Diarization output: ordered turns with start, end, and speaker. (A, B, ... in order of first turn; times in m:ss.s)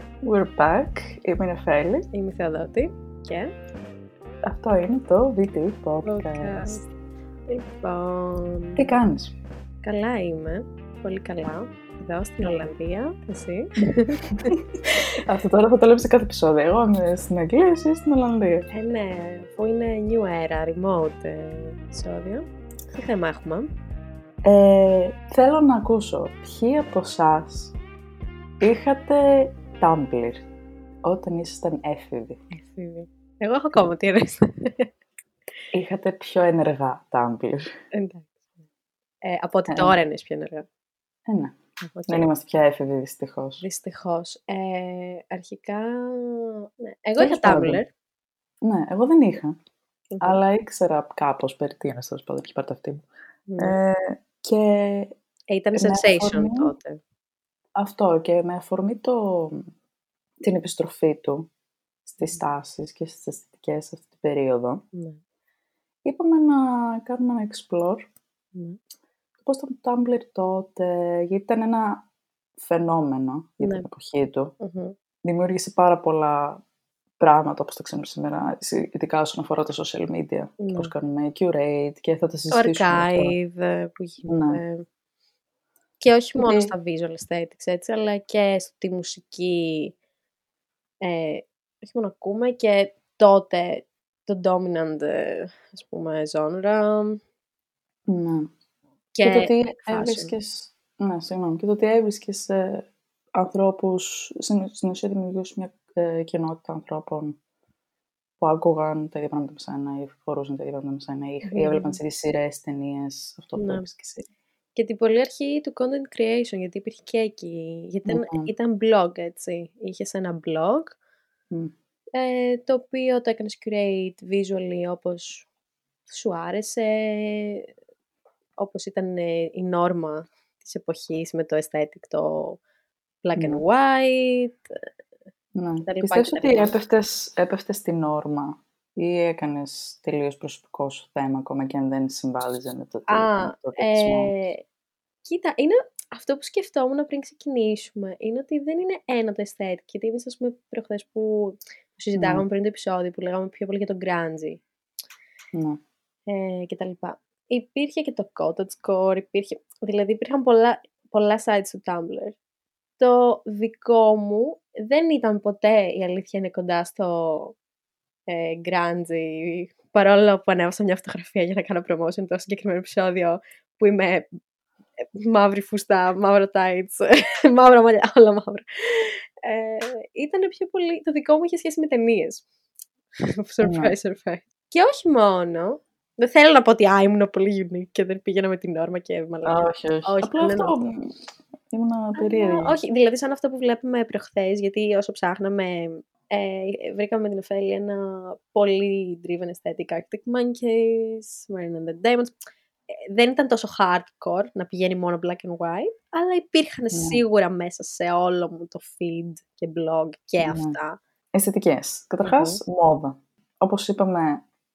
0:00.2-0:02.1 A
0:02.1-0:03.5 B
0:04.4-0:06.8 A
0:06.0-0:06.8 B
0:07.5-0:08.9 B
0:08.8-0:09.4 A
0:09.8-0:14.5 B
0:14.4-0:18.7 A
0:18.7-0:23.7 B
0:24.4-0:27.8 A
0:28.6-0:30.4 A
0:31.0-0:32.4 A
0:32.5-0:34.9 B
0:35.7-0:37.7 A
0:37.9-0:38.4 B
0:39.2-0:40.7 B
0:39.7-0:40.0 A
0:41.3-0:43.6 A
0:41.8-0:42.3 B
0:43.6-0:47.9 B
0:47.2-0:47.8 A
0:48.6-0:49.6 A
0:50.1-0:50.4 B
0:50.2-0:53.1 A
0:53.5-0:53.8 B
0:53.6-0:55.2 A
0:55.5-0:57.0 B
0:55.8-0:56.7 A
0:57.8-0:59.7 A
1:00.4-1:01.5 A
1:02.0-1:04.8 A
1:04.9-1:05.2 B
1:06.0-1:08.1 A
1:09.4-1:12.1 A
1:12.6-1:14.6 A
1:13.6-1:13.9 B
1:14.6-1:15.0 B
1:15.2-1:16.6 A
1:17.2-1:23.4 A
1:20.6-1:20.9 B
1:22.5-1:24.8 B
1:24.3-1:24.6 A
1:26.0-1:29.9 B
1:26.4-1:26.7 A
1:31.0-1:37.2 B
1:38.1-1:38.5 A
1:39.2-1:40.3 B
1:39.2-1:47.4 A
1:48.4-1:54.3 A
1:51.4-1:52.0 B
1:53.6-1:53.9 B
1:54.8-2:01.0 B
1:58.1-1:58.5 A
2:02.1-2:05.5 B
2:06.1-2:07.7 B
2:08.6-2:12.6 B
2:13.2-2:14.8 B
2:13.4-2:13.6 A
2:15.6-2:24.3 A
2:15.8-2:16.8 B
2:23.1-2:24.6 B
2:25.2-2:34.6 B
2:32.2-2:32.4 A
2:35.5-2:35.8 A
2:36.3-2:42.4 B
2:43.0-2:47.6 B
2:48.3-2:54.3 B
2:55.0-3:02.4 B
3:03.2-3:10.8 B
3:03.6-3:04.0 A
3:09.4-3:11.1 A
3:11.7-3:12.8 A
3:12.2-3:22.4 B
3:22.9-3:31.0 B
3:26.9-3:27.2 A
3:30.4-3:30.8 A
3:31.3-3:34.4 A
3:32.2-3:32.6 B